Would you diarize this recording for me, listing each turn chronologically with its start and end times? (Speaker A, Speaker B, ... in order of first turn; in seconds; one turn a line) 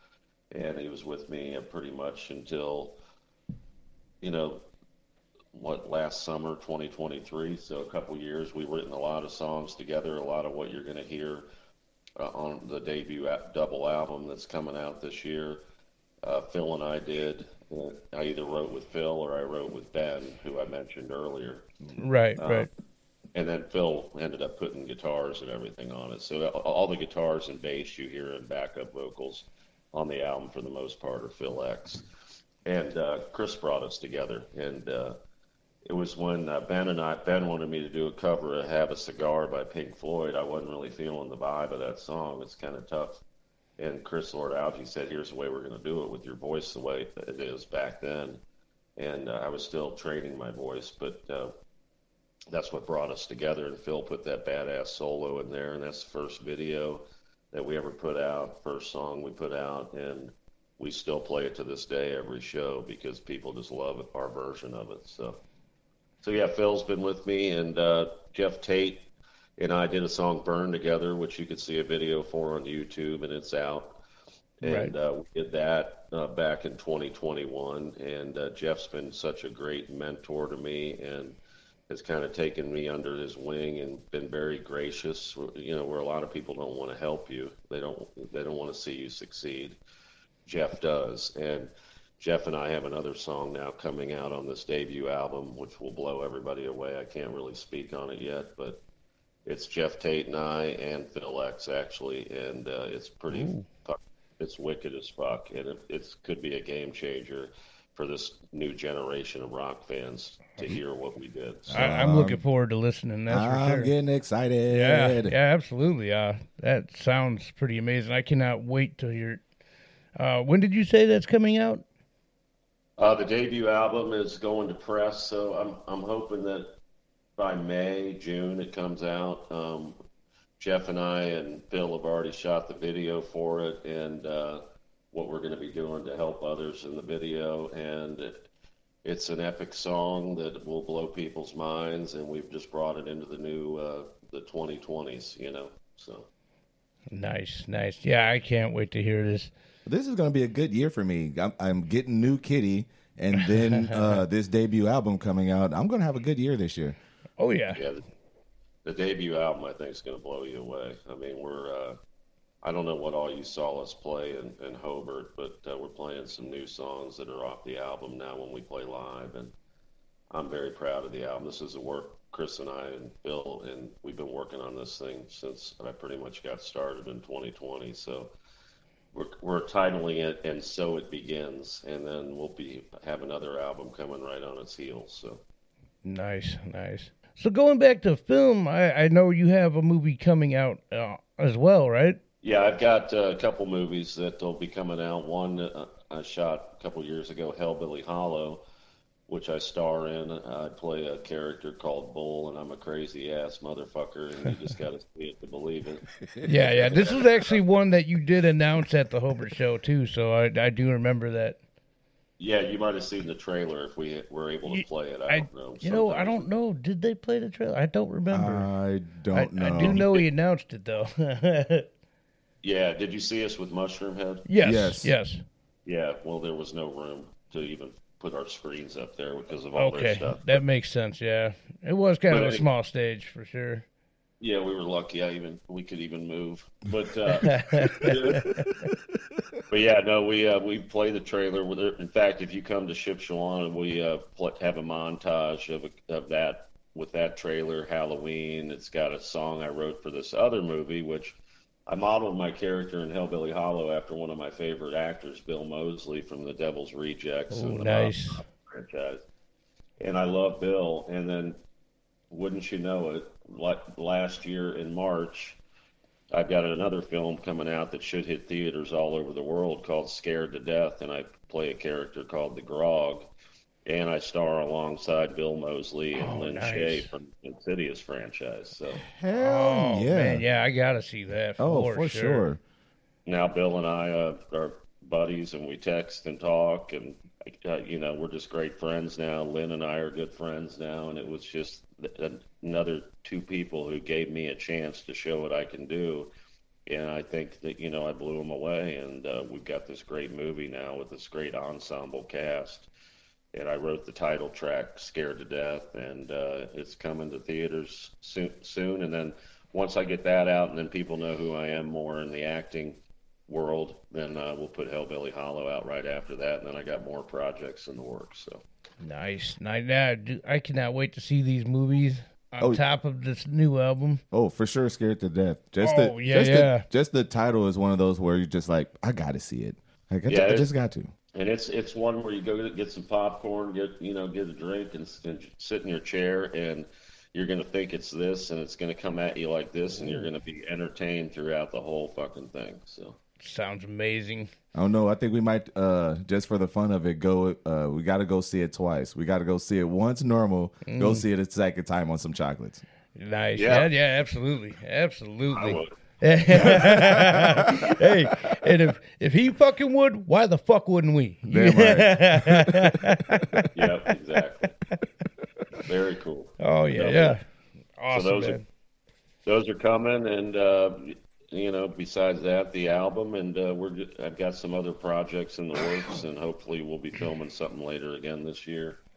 Speaker A: 0.5-3.0
Speaker A: 4.2-4.7
Speaker A: 5.5-11.5
Speaker A: 12.2-15.6
Speaker A: 16.2-21.7
Speaker B: 22.0-22.7
Speaker A: 22.4-22.7
Speaker A: 23.4-32.0
Speaker A: 32.7-35.2
Speaker A: 35.9-43.2
Speaker A: 43.8-48.4
Speaker A: 49.0-51.5
Speaker A: 52.5-65.4
Speaker A: 66.2-74.0
Speaker A: 74.6-81.4
Speaker B: 74.6-74.9
Speaker A: 81.9-89.8
Speaker A: 90.5-98.8
Speaker A: 99.5-111.9
Speaker B: 103.3-103.7
Speaker C: 111.7-112.4
Speaker B: 111.7-113.9
Speaker C: 113.3-115.3
Speaker B: 114.7-119.4
Speaker B: 120.2-121.8
Speaker A: 123.0-126.7
Speaker A: 127.4-130.0
Speaker A: 130.6-138.4
Speaker A: 139.0-146.3
Speaker B: 147.1-149.5
Speaker C: 149.9-157.0
Speaker B: 153.7-154.1
Speaker B: 157.4-157.8
Speaker A: 157.7-158.1
Speaker A: 158.8-162.0
Speaker A: 162.6-169.5
Speaker A: 170.3-178.3
Speaker A: 179.1-185.4
Speaker B: 186.0-192.2
Speaker A: 192.4-198.6
Speaker A: 199.3-206.1
Speaker B: 206.4-211.6
Speaker A: 206.8-207.6
Speaker A: 212.4-216.5
Speaker B: 214.7-218.7
Speaker C: 218.3-220.0
Speaker B: 219.3-221.9
Speaker A: 219.8-220.2
Speaker A: 222.6-224.5
Speaker B: 224.5-225.4
Speaker C: 224.6-225.1
Speaker A: 225.9-230.6
Speaker B: 229.8-233.8
Speaker A: 232.3-232.7
Speaker A: 234.4-238.5
Speaker B: 237.4-238.8
Speaker A: 239.7-259.2
Speaker B: 257.5-258.4
Speaker A: 260.0-261.6
Speaker A: 262.3-265.6
Speaker A: 266.3-273.3
Speaker A: 273.9-279.0
Speaker B: 276.2-277.1
Speaker C: 279.1-280.4
Speaker B: 279.3-282.5
Speaker C: 281.6-282.6
Speaker A: 283.3-296.3
Speaker A: 296.9-302.9
Speaker A: 303.5-318.6
Speaker B: 319.0-324.2
Speaker C: 324.3-331.1
Speaker B: 325.8-326.9
Speaker A: 330.3-330.7
Speaker A: 331.3-343.2
Speaker B: 343.4-344.5
Speaker C: 344.7-352.8
Speaker B: 350.9-351.2
Speaker B: 353.2-363.7
Speaker A: 353.6-353.9
Speaker A: 355.5-355.9
Speaker C: 356.6-357.9
Speaker C: 361.5-363.7
Speaker A: 363.7-364.8
Speaker A: 365.8-367.4
Speaker B: 366.6-367.4
Speaker B: 368.0-368.6
Speaker A: 368.1-368.6
Speaker A: 369.5-379.0